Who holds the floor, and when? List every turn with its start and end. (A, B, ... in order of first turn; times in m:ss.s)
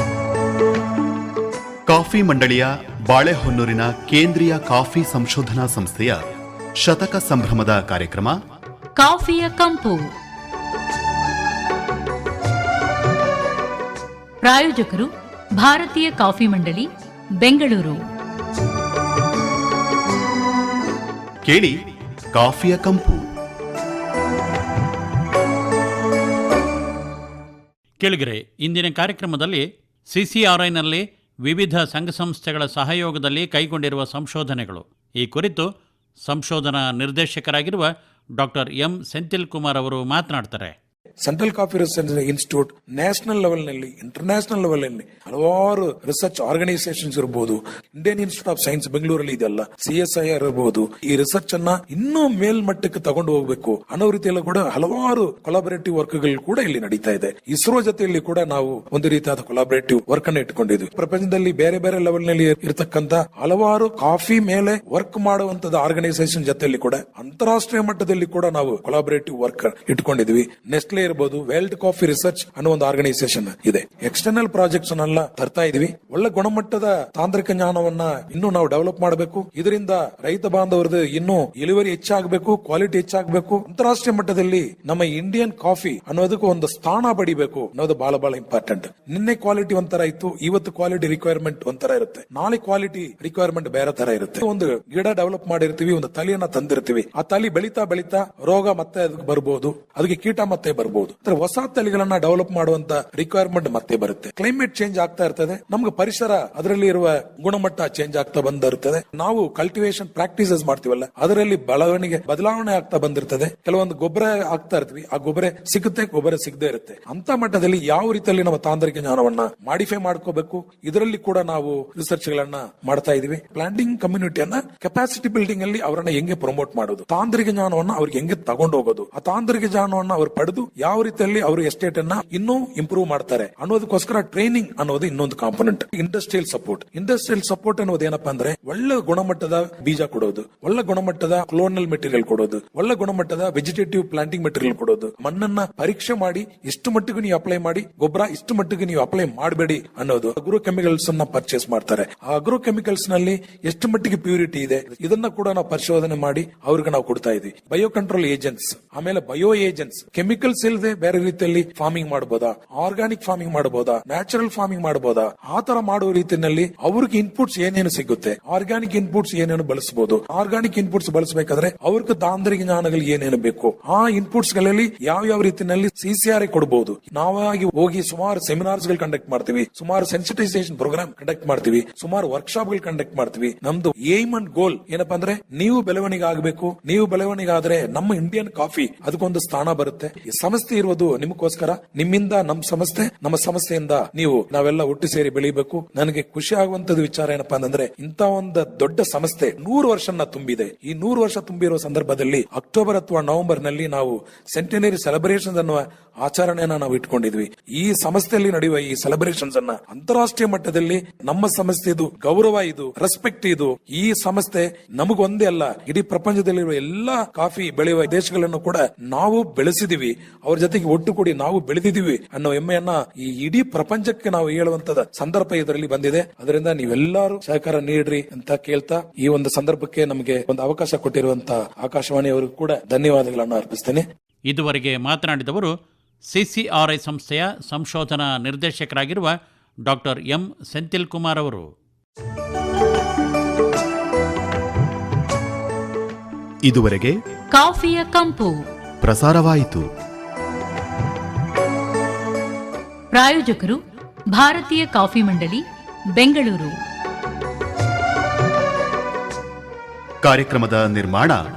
0:01.9-0:06.2 A
0:06.8-0:08.4 A
0:09.0-0:10.1 B
0:14.4-0:16.9 B
0:17.4-0:18.0 B
0:21.4-0:21.8 A
0:22.3-0:23.2 A
0:28.0-0:35.7 C
0:36.2-0:40.7 C
0:41.2-3:54.0 D
3:54.5-3:55.7 C
3:56.3-3:59.3 C
3:59.8-4:01.7 C
4:06.6-4:07.2 A
4:07.5-4:08.6 B
4:09.0-4:09.9 A
4:13.1-4:13.8 B
4:14.3-4:15.6 B
4:16.2-4:16.8 B
4:20.2-4:21.4 A